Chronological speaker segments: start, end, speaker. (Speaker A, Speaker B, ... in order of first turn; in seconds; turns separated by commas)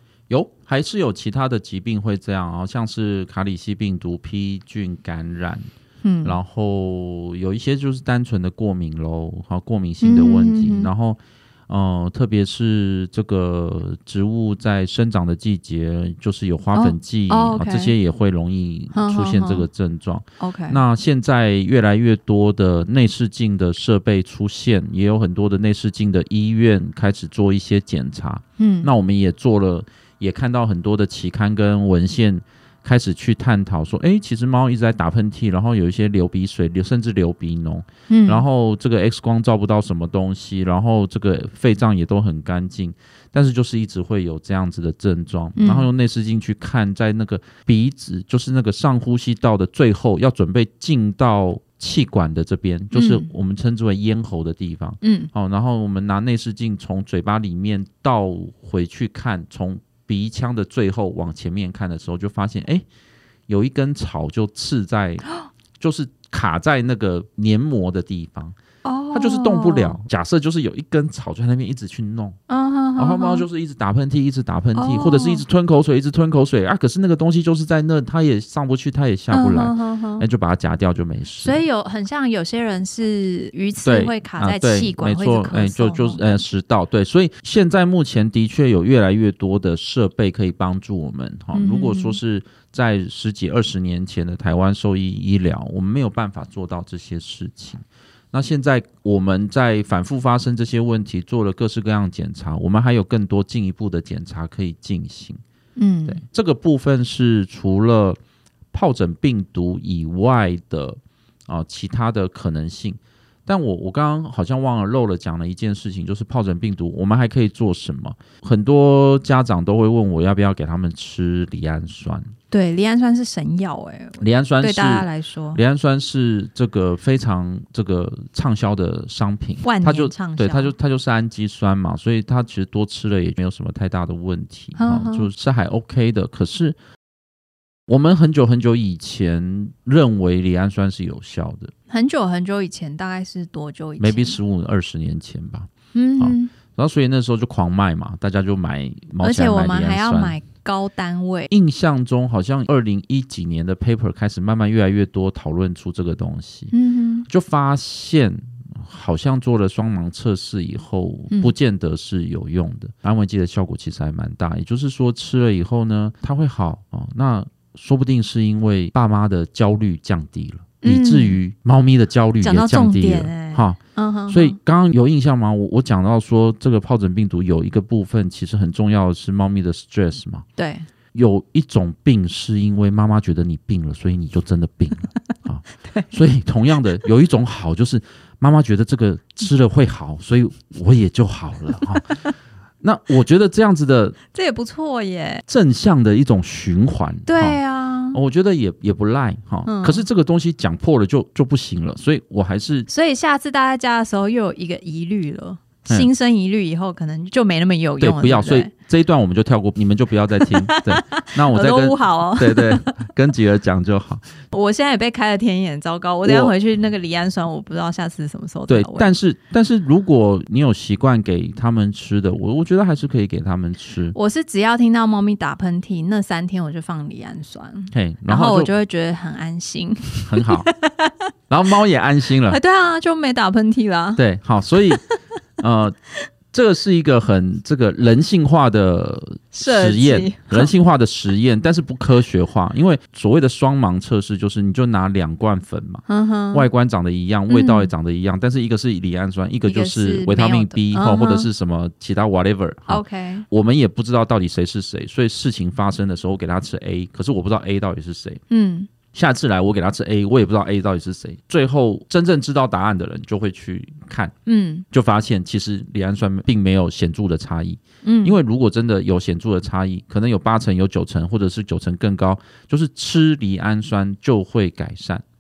Speaker A: 0.3-5.7, Speaker B: 6.0-6.4, Speaker A: 6.2-62.9, Speaker B: 10.0-10.9, Speaker B: 16.7-17.9, Speaker B: 18.9-19.7, Speaker B: 20.4-20.8, Speaker B: 28.6-28.9, Speaker B: 38.1-38.5, Speaker B: 45.6-45.9, Speaker B: 52.9-53.3, Speaker B: 55.0-55.3, Speaker A: 63.5-65.2, Speaker A: 65.8-68.6, Speaker B: 68.8-70.0, Speaker A: 69.1-72.4, Speaker B: 72.5-73.5, Speaker A: 73.0-81.6, Speaker B: 74.8-75.5, Speaker B: 79.3-80.2, Speaker B: 81.4-86.4, Speaker A: 83.8-105.4, Speaker B: 91.5-92.2, Speaker B: 105.8-106.2, Speaker A: 106.1-108.2, Speaker A: 108.7-122.3, Speaker B: 122.5-125.6, Speaker A: 124.2-136.8, Speaker B: 129.6-130.7, Speaker B: 134.8-135.3, Speaker A: 137.9-141.7, Speaker B: 141.9-144.4, Speaker A: 144.0-150.4, Speaker B: 145.9-146.5, Speaker B: 149.2-151.5, Speaker A: 151.5-156.7, Speaker B: 156.7-157.3, Speaker A: 157.3-180.4, Speaker B: 170.8-171.4, Speaker B: 172.4-174.6, Speaker B: 180.6-180.9, Speaker A: 181.1-192.2, Speaker B: 185.8-186.1, Speaker B: 192.1-192.3, Speaker A: 192.8-194.2, Speaker B: 194.3-195.4, Speaker A: 195.5-197.6, Speaker B: 197.3-198.2, Speaker A: 198.1-202.9, Speaker B: 199.7-200.1, Speaker B: 202.9-208.7, Speaker A: 208.0-214.2, Speaker B: 210.4-213.0, Speaker B: 214.5-219.2, Speaker A: 216.2-216.5, Speaker A: 218.7-224.2, Speaker B: 224.1-231.2, Speaker A: 227.9-228.7, Speaker A: 230.2-230.7, Speaker A: 231.5-232.6, Speaker B: 232.5-234.2, Speaker A: 234.2-235.0, Speaker A: 235.6-236.0, Speaker A: 236.5-258.4, Speaker B: 239.5-240.7, Speaker B: 246.1-246.7, Speaker B: 247.5-247.9, Speaker B: 249.7-251.5, Speaker B: 252.9-253.5, Speaker B: 258.5-258.9, Speaker A: 259.1-264.3, Speaker B: 264.5-264.9, Speaker A: 264.9-275.2, Speaker B: 268.0-268.4